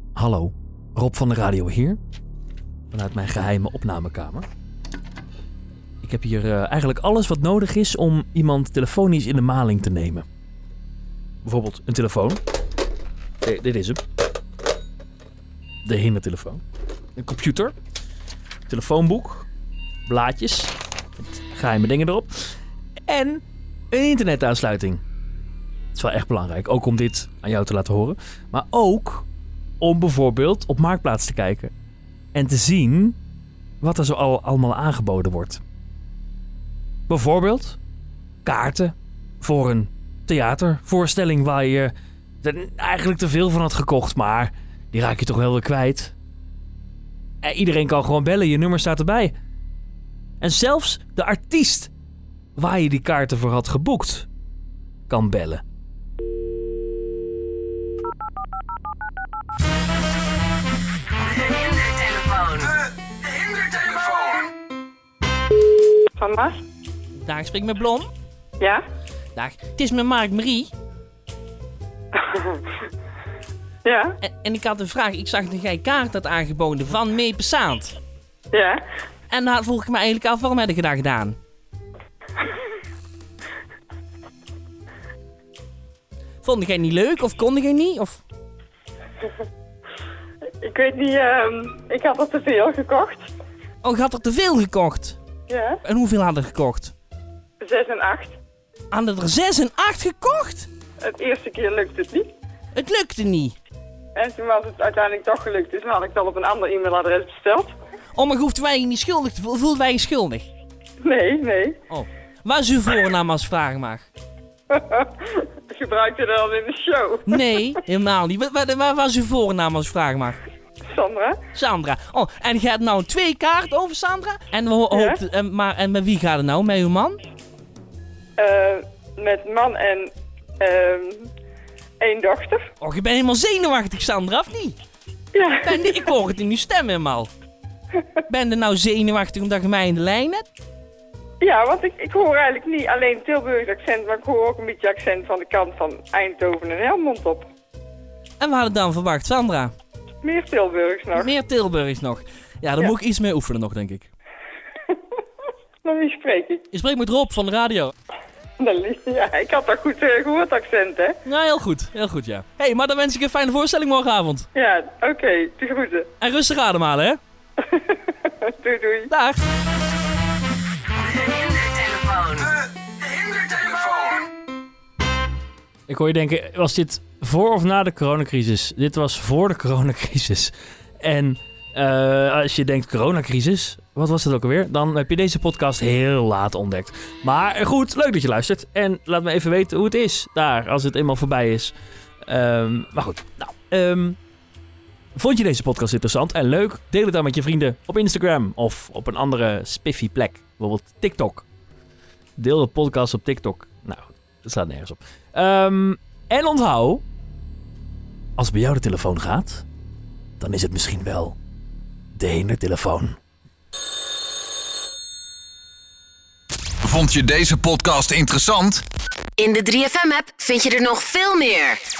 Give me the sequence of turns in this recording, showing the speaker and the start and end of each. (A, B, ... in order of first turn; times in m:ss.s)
0:00.2-0:02.0 A
0:02.9-0:04.5 A
0:06.0-0:10.2 A
0:11.4-0:12.4 A
0:13.4-0:14.0 A
0:15.8-0:16.6 A
0:17.2-0:17.8 A
0:18.7-0:19.5 A
0:20.1-0:22.4 A
0:23.1-0:25.0 A
0:25.9-0:29.3 A
0:29.8-0:31.7 A
0:32.4-0:33.2 A
0:33.8-0:35.6 A
0:37.1-0:37.8 A
0:38.4-0:46.1 A
0:47.4-0:49.3 A
0:50.4-0:51.9 A
0:52.6-0:54.3 A
0:55.1-0:55.6 A
1:01.2-1:02.8 B
1:03.7-1:04.2 B
1:06.2-1:06.6 C
1:07.1-1:08.1 D
1:09.4-1:10.7 D
1:12.2-1:12.6 C
1:13.8-1:14.1 C
1:14.2-1:18.0 D
1:18.5-1:18.8 C
1:19.3-1:21.4 D
1:26.4-1:28.2 D
1:30.6-1:33.3 C
1:33.8-1:35.2 D
1:35.5-1:35.8 C
1:35.8-1:36.9 D
1:37.6-1:38.3 C
1:38.9-1:40.7 D
1:41.0-1:42.3 C
1:42.7-1:43.6 D
1:44.2-1:47.7 C
1:48.1-1:50.5 D
1:51.0-1:51.8 C
1:51.9-1:54.1 D
1:54.7-1:57.4 C
1:57.3-2:00.4 D
2:00.9-2:01.4 C
2:01.5-2:07.2 D
2:04.9-2:05.2 C
2:08.4-2:11.3 C
2:12.0-2:12.6 C
2:12.8-2:14.8 D
2:15.3-2:15.9 C
2:15.6-2:17.3 D
2:18.2-2:20.5 D
2:21.4-2:27.5 C
2:28.4-2:29.7 D
2:30.2-2:31.3 C
2:31.1-2:34.1 D
2:35.8-2:36.6 C
2:36.7-2:37.9 D
2:38.6-2:41.2 C
2:41.2-2:44.5 D
2:44.6-2:46.1 C
2:46.2-2:47.2 D
2:47.6-2:49.1 C
2:49.1-2:49.4 D
2:51.0-2:52.5 B
2:53.4-2:54.2 B
2:55.9-3:11.7 A
3:12.2-3:14.2 A
3:15.2-3:21.5 A
3:22.4-3:27.0 A
3:28.4-3:29.7 A
3:30.4-3:31.4 A
3:32.2-3:33.2 A
3:36.8-3:38.8 E
3:39.4-3:41.8 B